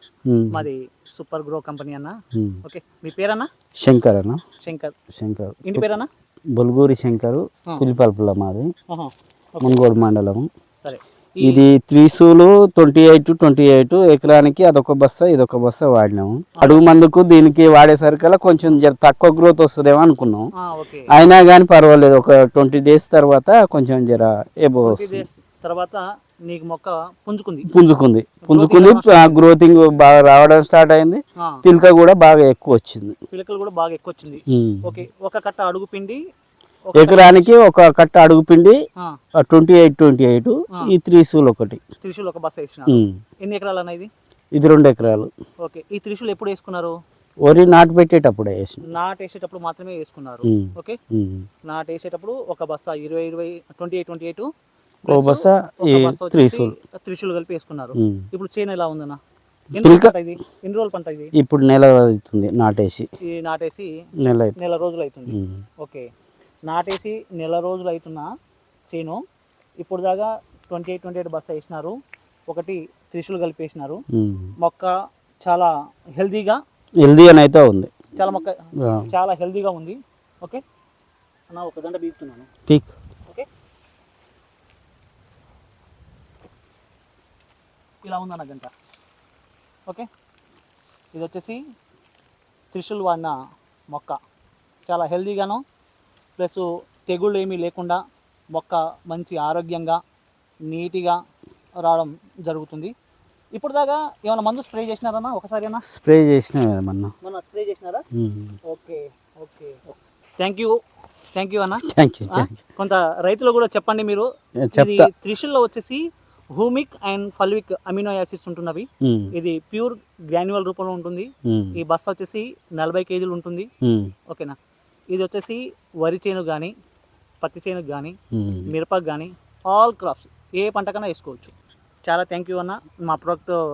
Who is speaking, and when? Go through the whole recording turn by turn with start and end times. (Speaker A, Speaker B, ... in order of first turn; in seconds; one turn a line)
Speaker A: 0.3-0.7
Speaker B: 0.5-3.5
Speaker A: 2.3-2.6
Speaker A: 3.8-4.4
Speaker B: 4.6-4.9
Speaker A: 5.1-5.8
Speaker B: 5.6-6.1
Speaker A: 6.5-8.7
Speaker B: 8.9-9.8
Speaker A: 9.6-10.5
Speaker B: 10.8-11.6
Speaker A: 11.4-20.5
Speaker B: 16.6-16.8
Speaker B: 20.6-21.1
Speaker A: 21.1-25.2
Speaker B: 24.8-27.7
Speaker A: 27.7-33.2
Speaker B: 28.4-29.4
Speaker B: 33.3-36.2
Speaker A: 34.5-35.0
Speaker B: 36.9-37.5
Speaker A: 37.0-38.8
Speaker A: 39.4-41.8
Speaker B: 42.0-44.1
Speaker A: 42.9-43.1
Speaker A: 44.5-45.3
Speaker B: 45.6-46.9
Speaker A: 47.4-48.9
Speaker B: 48.9-51.0
Speaker A: 50.5-51.5
Speaker B: 51.7-54.5
Speaker B: 55.0-59.2
Speaker A: 55.1-56.8
Speaker A: 58.0-58.2
Speaker B: 59.7-61.3
Speaker A: 59.8-60.1
Speaker A: 61.4-63.1
Speaker B: 63.2-63.9
Speaker A: 64.2-64.5
Speaker B: 64.6-66.1
Speaker A: 65.3-65.6
Speaker B: 66.7-68.3
Speaker B: 68.9-69.2
Speaker B: 69.8-71.9
Speaker B: 72.5-74.0
Speaker A: 74.1-74.5
Speaker B: 74.6-76.6
Speaker A: 77.0-77.9
Speaker B: 78.2-80.6
Speaker A: 78.8-79.1
Speaker B: 81.5-82.5
Speaker B: 88.0-88.7
Speaker B: 91.1-91.6
Speaker B: 92.7-93.3
Speaker B: 93.9-94.2
Speaker B: 94.9-95.6
Speaker B: 96.4-98.0
Speaker B: 98.5-100.0
Speaker B: 100.7-101.2
Speaker B: 101.8-102.9
Speaker B: 103.5-105.8
Speaker A: 105.9-107.1
Speaker B: 107.2-108.0
Speaker A: 108.1-108.5
Speaker B: 108.7-110.8
Speaker B: 111.3-116.0
Speaker A: 111.8-112.6
Speaker A: 114.6-115.1
Speaker B: 116.5-123.7
Speaker A: 119.0-119.3
Speaker A: 121.5-121.8
Speaker A: 123.8-124.1
Speaker B: 124.3-124.5
Speaker B: 125.1-126.7
Speaker B: 127.4-128.1
Speaker A: 128.3-128.7
Speaker B: 128.7-131.5
Speaker B: 132.0-133.6